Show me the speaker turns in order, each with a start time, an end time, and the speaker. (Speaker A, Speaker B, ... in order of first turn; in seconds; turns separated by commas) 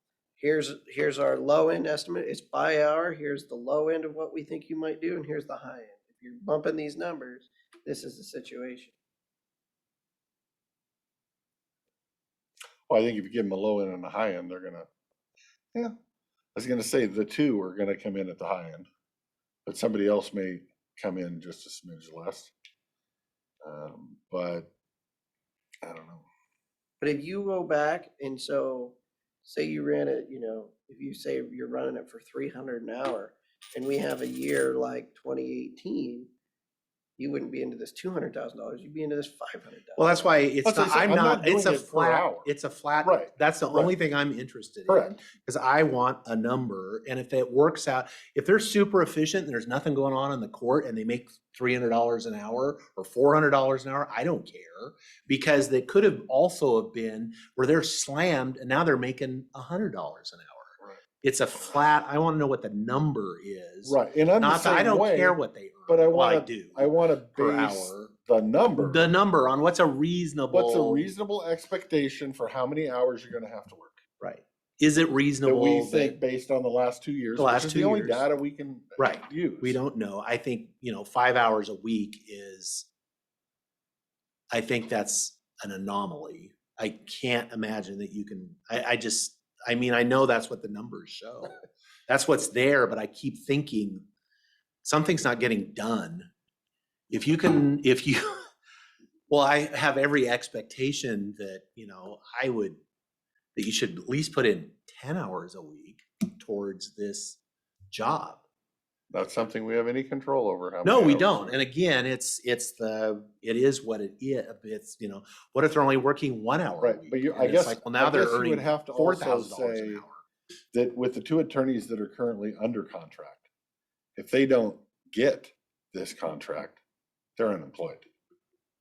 Speaker A: 0.4-8.9, Speaker B: 12.9-14.9, Speaker B: 16.5-18.9, Speaker B: 19.6-22.5, Speaker B: 23.6-24.7, Speaker B: 25.8-26.3, Speaker A: 27.0-36.3, Speaker A: 37.2-40.4, Speaker C: 40.0-68.1, Speaker B: 40.6-42.5, Speaker B: 43.0-43.9, Speaker B: 44.9-45.2, Speaker B: 63.8-69.1, Speaker C: 68.7-71.0, Speaker B: 70.5-74.0, Speaker C: 74.2-76.2, Speaker B: 75.4-79.8, Speaker C: 77.3-78.2, Speaker C: 79.0-82.9, Speaker C: 84.5-91.5, Speaker C: 92.1-94.0, Speaker C: 94.8-96.3, Speaker C: 97.1-98.5, Speaker C: 99.3-102.8, Speaker C: 103.5-107.4, Speaker C: 107.9-108.4, Speaker B: 109.1-111.6, Speaker C: 110.8-120.2, Speaker B: 116.8-120.0, Speaker B: 120.7-123.5, Speaker B: 124.2-126.8, Speaker B: 127.4-128.1